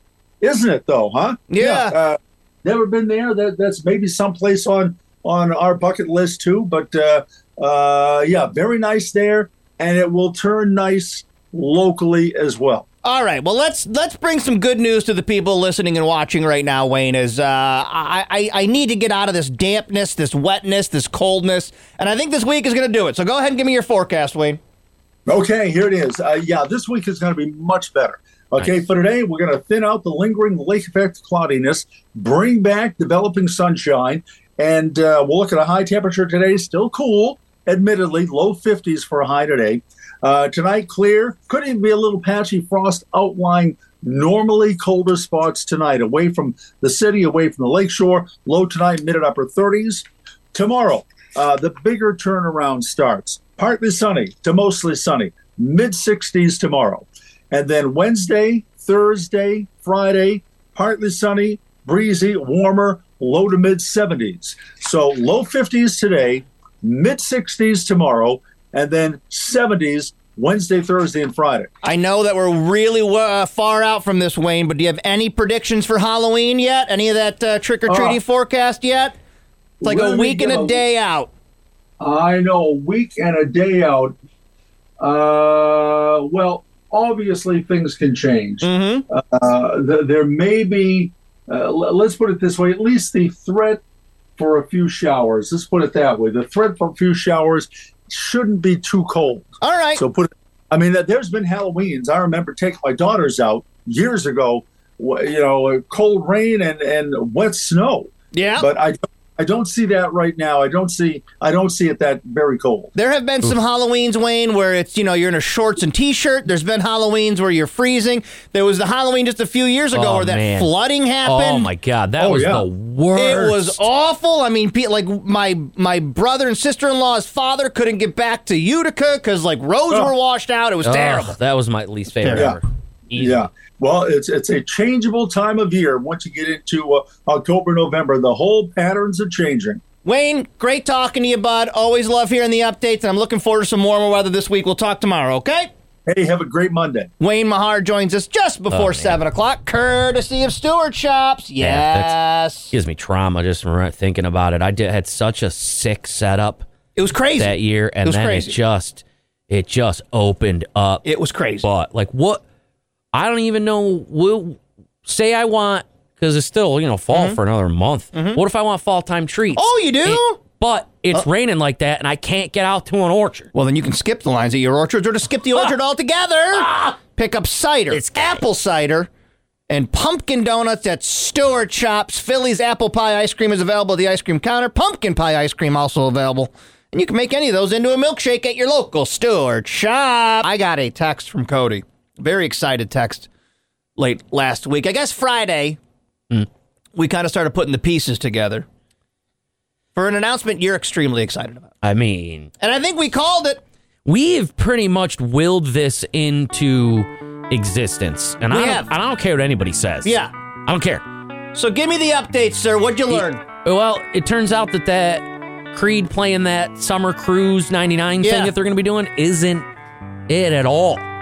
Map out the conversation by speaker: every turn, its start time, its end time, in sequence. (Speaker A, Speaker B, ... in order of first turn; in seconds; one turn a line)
Speaker A: 0.4-12.8
Speaker B: 1.5-2.0
Speaker B: 13.0-24.6
Speaker A: 25.2-71.7
Speaker B: 71.8-79.2
Speaker A: 77.8-78.2
Speaker A: 79.8-80.8
Speaker B: 79.8-81.3
Speaker A: 82.0-84.2
Speaker A: 85.0-93.8
Speaker B: 88.6-89.0
Speaker A: 94.4-112.9
Speaker B: 99.6-100.0
Speaker B: 108.3-108.7
Speaker B: 113.0-121.7
Speaker C: 119.9-120.7
Speaker C: 121.2-123.8
Speaker A: 122.2-122.7
Speaker B: 123.1-131.4
Speaker C: 130.8-133.5
Speaker B: 132.2-132.6
Speaker A: 132.3-132.6
Speaker A: 133.1-139.8
Speaker B: 140.0-145.7
Speaker A: 146.1-147.1
Speaker B: 147.2-152.7
Speaker C: 148.7-149.2
Speaker C: 151.6-152.2
Speaker C: 152.7-156.7
Speaker B: 156.9-158.6
Speaker C: 157.4-161.0
Speaker B: 161.0-161.7
Speaker C: 161.6-162.4
Speaker C: 163.1-173.5
Speaker B: 167.1-167.4
Speaker B: 168.1-168.4
Speaker B: 169.6-170.4
Speaker B: 173.5-179.1
Speaker C: 176.7-176.9
Speaker C: 177.9-178.4
Speaker B: 179.7-193.3
Speaker B: 194.0-195.8
Speaker B: 196.9-198.7
Speaker B: 199.9-201.7
Speaker C: 201.8-202.5
Speaker B: 202.6-203.6
Speaker C: 204.0-211.0
Speaker B: 208.5-208.9
Speaker B: 210.0-210.3
Speaker B: 211.5-213.4
Speaker C: 213.1-219.7
Speaker B: 218.2-218.5
Speaker C: 220.3-221.0